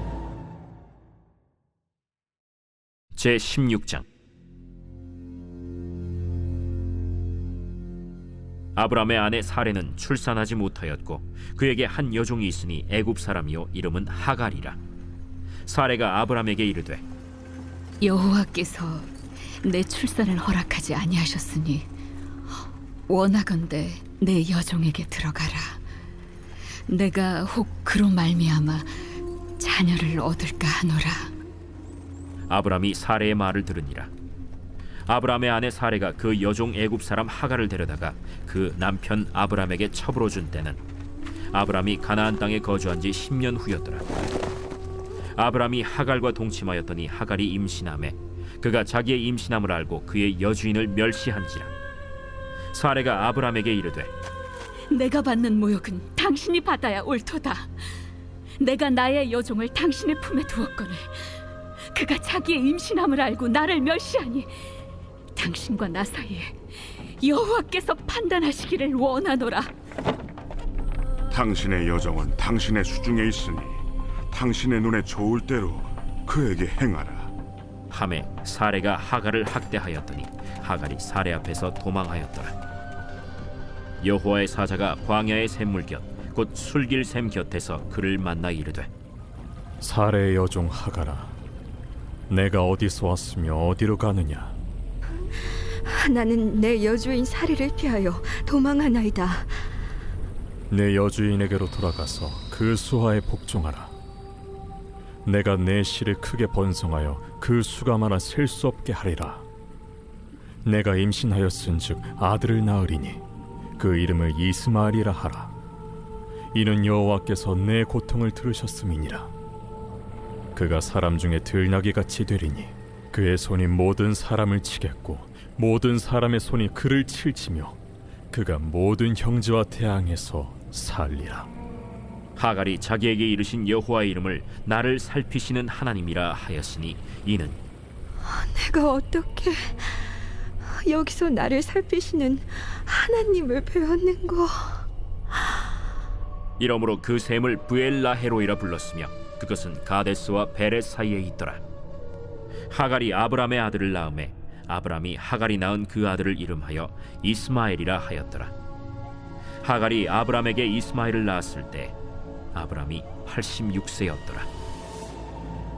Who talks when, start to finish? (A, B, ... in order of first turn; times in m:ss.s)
0:03.2-0:04.0 A
0:08.8-0:14.8 A
0:15.6-0:17.0 A
0:18.0-0:19.1 B
0:19.6-0:21.9 B
0:23.1-0:25.8 B
0:26.9-0:31.3 B
0:32.5-0:34.1 A
0:35.1-0:40.8 A
0:41.5-0:44.1 A
0:45.4-0:51.7 A
0:52.7-0:54.1 A
0:54.9-0:57.7 B
0:58.6-1:01.4 B
1:01.9-1:04.7 B
1:05.3-1:09.7 B
1:11.3-1:17.3 C
1:17.9-1:22.5 A
1:24.0-1:28.9 A
1:29.8-1:31.3 D
1:32.3-1:34.6 D
1:35.8-1:39.6 E
1:40.7-1:43.9 D
1:45.2-1:49.4 D
1:50.6-1:53.2 D
1:53.8-1:55.5 D
1:56.5-1:59.3 D
2:00.5-2:07.8 D
2:08.3-2:11.5 D
2:12.4-2:17.6 A
2:18.2-2:20.1 E
2:20.6-2:24.8 E
2:26.6-2:31.6 A
2:32.7-2:38.5 A
2:39.6-2:41.9 A
2:42.5-2:44.5 A